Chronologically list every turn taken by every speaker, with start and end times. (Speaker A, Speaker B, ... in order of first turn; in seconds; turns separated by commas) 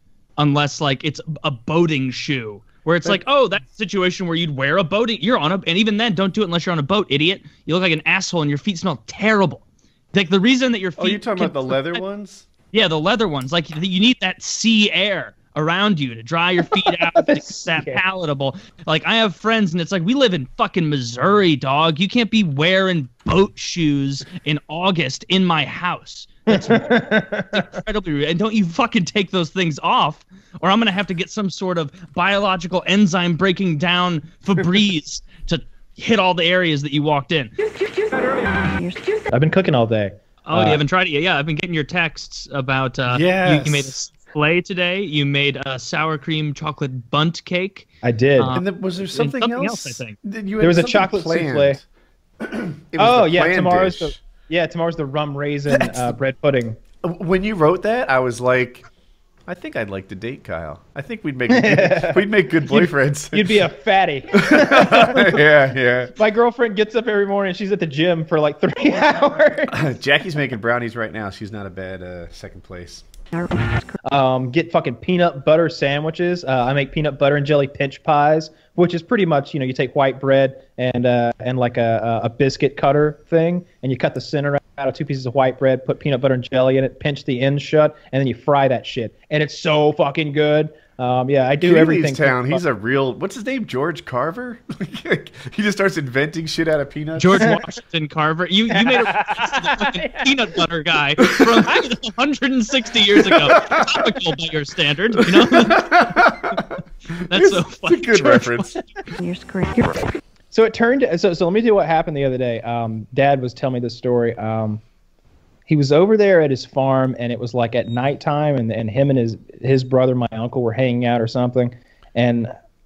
Speaker A: 0.4-12.0, Speaker B: 11.0-12.5, Speaker A: 12.7-37.5, Speaker C: 16.9-18.0, Speaker C: 26.5-27.5, Speaker D: 38.7-39.1, Speaker C: 39.3-40.8, Speaker A: 40.4-50.1, Speaker B: 43.1-43.9, Speaker C: 48.0-48.6, Speaker B: 48.5-51.9, Speaker C: 50.6-51.8, Speaker B: 52.4-54.2, Speaker C: 53.0-56.8, Speaker B: 55.7-56.1, Speaker B: 57.0-58.9, Speaker B: 59.5-63.6, Speaker C: 61.5-65.4, Speaker B: 64.3-66.2, Speaker C: 66.2-69.8, Speaker B: 69.7-73.0, Speaker D: 73.3-73.9, Speaker C: 74.0-92.6, Speaker B: 91.6-97.5, Speaker A: 97.2-106.0, Speaker C: 98.7-100.3, Speaker B: 103.2-103.8, Speaker B: 105.5-106.5, Speaker A: 107.2-108.9, Speaker B: 107.3-108.7, Speaker D: 109.2-110.1, Speaker C: 110.5-114.8, Speaker C: 115.7-122.5